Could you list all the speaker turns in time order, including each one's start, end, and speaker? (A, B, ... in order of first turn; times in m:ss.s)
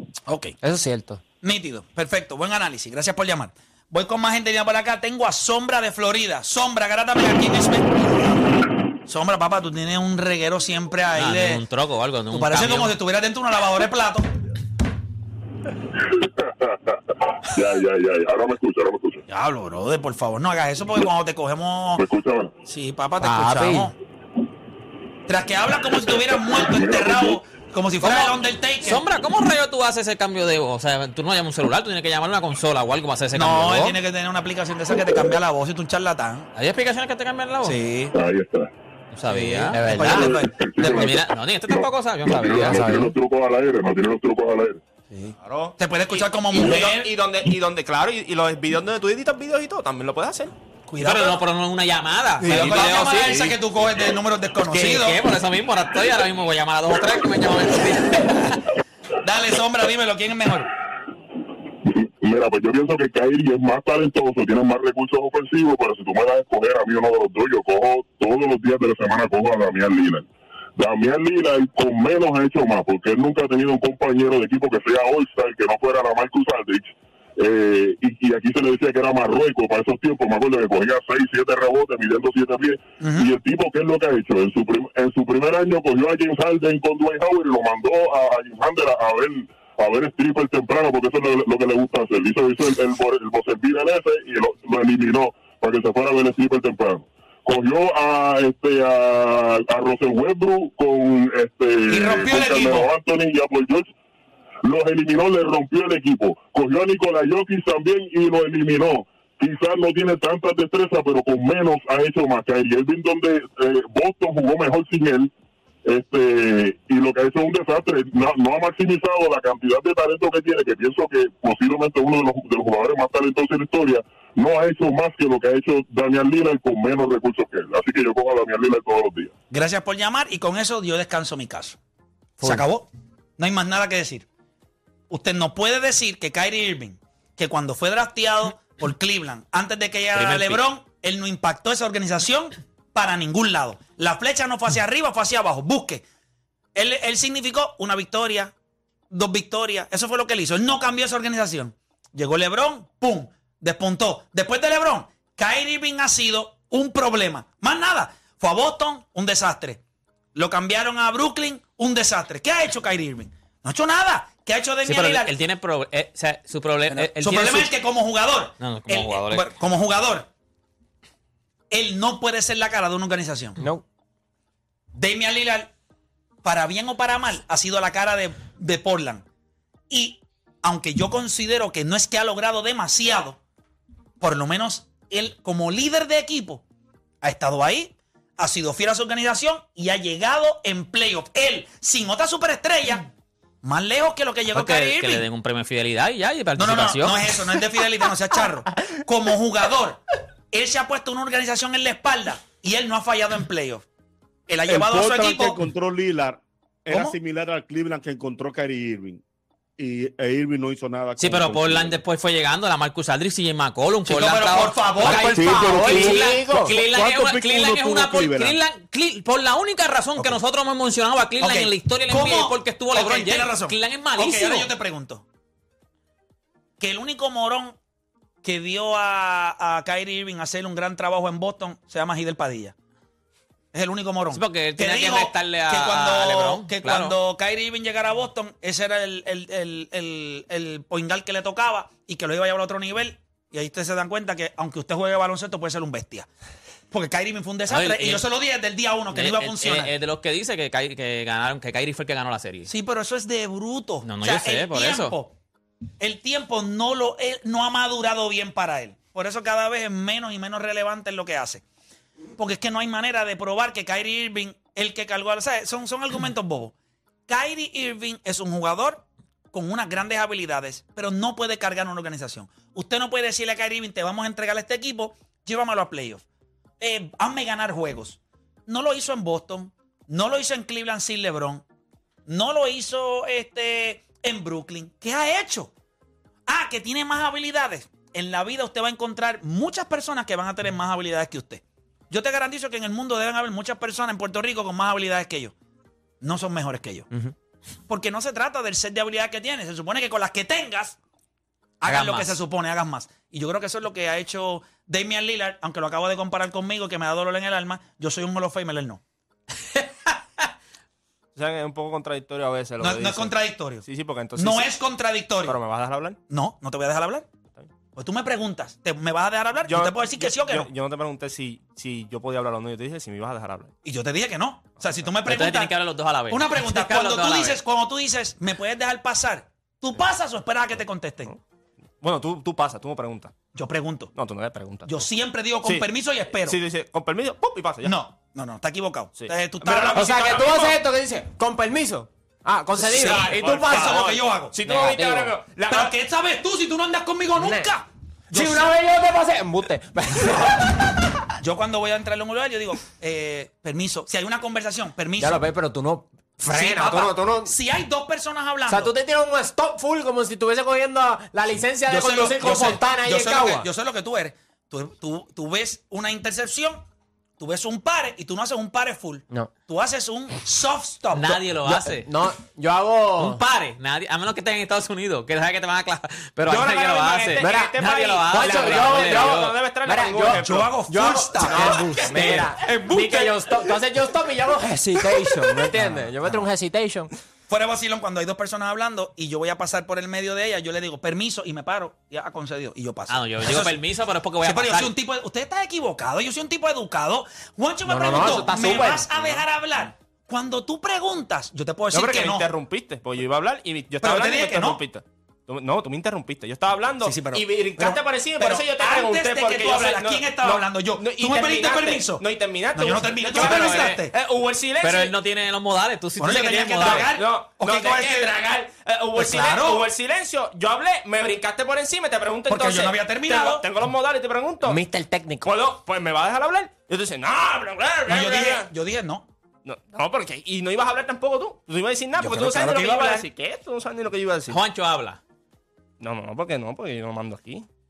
0:00.3-0:00.6 A
0:00.6-0:01.2 B
0:01.4-0:08.4 A
0:09.1-0:11.6 A
0:11.2-0:12.9 C
0:12.3-0:14.3 A
0:16.0-0:19.2 D
0:19.3-0:22.0 A
0:22.0-0:22.5 D
0:22.6-0:24.0 A
0:23.2-0:23.9 B
0:25.3-0:29.0 A
0:26.5-0:27.4 D
0:28.0-0:34.0 C
0:33.3-0:36.5 A
0:36.6-0:37.8 C
0:37.6-0:38.2 A
0:38.1-0:38.7 D
0:39.1-0:43.0 C
0:39.3-0:40.6 A
0:39.7-0:40.3 B
0:40.1-0:44.8 D
0:42.6-0:43.1 B
0:45.1-0:47.1 A
0:45.4-0:50.5 E
0:50.9-0:51.4 A
0:51.0-0:53.6 C
0:52.4-0:55.2 A
0:52.4-0:53.2 E
0:54.7-0:58.6 C
0:59.2-1:00.7 A
1:01.8-1:43.9 D
1:23.0-1:23.3 A
1:41.9-1:42.9 A
1:44.6-1:55.3 D
1:55.9-2:09.3 D
2:09.5-2:11.8 A
2:12.4-2:14.3 A
2:15.1-2:26.0 A
2:20.2-2:20.6 C
2:26.8-2:28.5 A
2:29.1-2:39.8 A
2:40.4-2:45.3 A
2:44.8-2:47.7 C
2:46.9-2:50.3 A
2:48.6-2:49.5 C
2:51.7-2:53.6 A
2:53.6-2:53.8 B
2:54.9-2:55.7 A
2:56.4-2:59.2 A
2:59.9-3:03.4 A
3:04.2-3:06.6 A
3:07.2-3:13.1 A
3:13.6-3:15.3 A
3:14.5-3:17.2 C
3:16.6-3:23.9 A
3:24.5-3:25.6 A
3:24.7-3:29.2 F
3:26.9-3:27.2 A
3:29.8-3:32.0 F
3:31.2-3:44.7 C
3:34.1-3:35.4 A
3:35.0-3:36.8 B
3:35.1-3:38.6 F
3:41.4-3:45.2 A
3:46.8-3:47.8 A
3:48.4-3:52.8 A
3:53.7-4:06.3 A
3:54.3-3:57.2 C
4:06.9-4:09.9 A
4:07.7-4:08.2 C
4:09.1-4:12.7 C
4:12.7-4:15.4 A
4:14.0-4:15.2 C
4:16.0-4:21.6 A
4:22.4-4:26.7 A
4:27.3-4:36.2 A
4:36.8-4:41.6 A
4:42.3-4:45.7 A
4:46.5-4:55.5 A
4:56.2-4:57.1 A
4:57.9-5:01.0 A
5:01.8-5:09.0 A
5:01.9-5:02.3 C
5:09.8-5:10.2 A
5:11.4-5:14.7 E
5:12.8-5:13.8 A
5:14.4-5:15.6 A
5:15.4-5:16.2 E
5:16.3-5:17.3 A
5:18.0-5:20.7 A
5:19.7-5:23.7 E
5:23.8-5:25.7 A
5:25.2-5:27.6 C
5:26.3-5:31.3 A
5:32.0-5:33.3 E
5:33.5-5:34.1 A
5:34.2-5:35.1 E
5:34.9-5:36.6 A
5:35.6-5:38.0 E
5:37.8-5:40.5 A
5:39.2-5:40.8 E
5:39.9-5:44.0 B
5:42.8-5:45.9 E
5:42.9-5:44.6 A
5:44.6-5:45.3 B
5:45.7-5:48.7 A
5:47.4-5:47.7 B
5:48.3-5:50.9 B
5:51.4-5:55.4 A
5:55.2-5:57.5 B
5:56.5-5:58.9 A
5:58.7-6:03.7 B
6:01.9-6:06.8 A
6:07.4-6:11.4 A
6:11.1-6:12.1 C
6:11.6-6:13.4 B
6:13.2-6:19.6 C
6:16.5-6:20.7 E
6:17.4-6:27.1 B
6:20.4-6:22.4 A
6:21.4-6:23.2 E
6:25.7-6:26.5 A
6:27.5-6:33.8 A
6:33.1-6:34.9 C
6:34.4-6:42.5 A
6:37.9-6:39.1 B
6:41.9-6:55.2 E
6:44.0-6:44.8 A
6:47.0-6:54.1 A
6:53.3-6:54.0 C
6:54.8-6:57.1 C
6:56.2-6:58.4 A
6:56.7-7:04.8 E
6:59.2-6:59.9 A
7:02.5-7:03.7 A
7:04.7-7:05.5 B
7:05.4-7:08.7 E
7:08.1-7:09.3 A
7:09.6-7:14.6 E
7:12.2-7:13.3 A
7:14.5-7:15.2 C
7:16.0-7:17.7 E